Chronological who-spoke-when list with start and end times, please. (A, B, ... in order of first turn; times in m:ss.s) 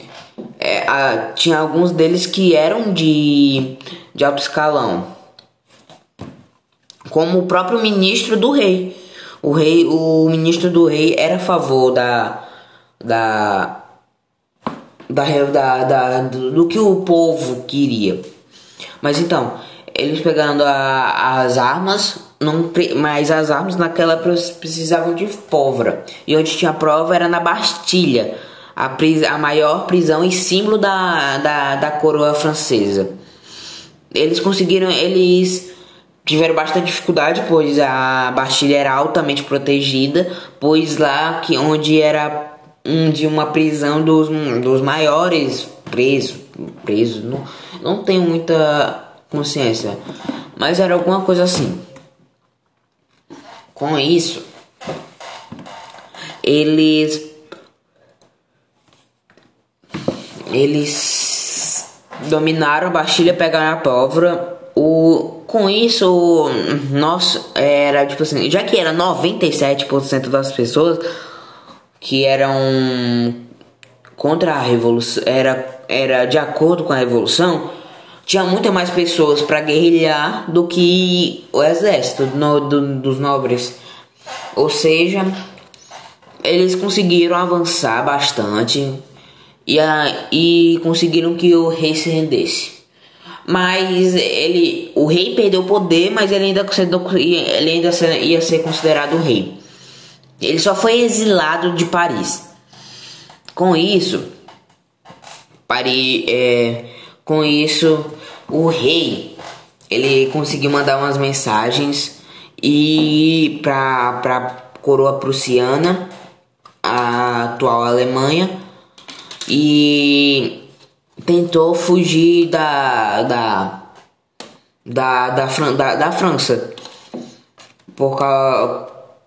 0:00.6-0:05.1 A
0:07.1-0:12.5 A
0:13.0-0:13.8 A
0:15.1-0:18.2 A
0:19.0-0:33.1 A
0:34.1-0:35.7 A
0:36.2-0:50.0 A
0:50.6-0:51.8 A
0:53.7-0:54.4 A
0:56.4-0:57.3 A
1:00.5-1:11.0 A
1:12.0-1:13.4 A
1:14.2-1:17.7 A
1:18.3-1:23.8 A
1:24.6-1:25.4 A
1:26.4-1:29.0 A
1:29.7-1:32.8 A
1:33.4-1:39.6 A
1:40.4-1:42.5 A
1:43.5-1:44.3 A
1:45.7-1:49.4 A
1:49.9-1:56.1 A
1:56.8-1:58.6 A
1:59.5-2:00.6 A
2:01.2-2:03.8 A
2:04.8-2:06.7 A
2:08.0-2:09.0 A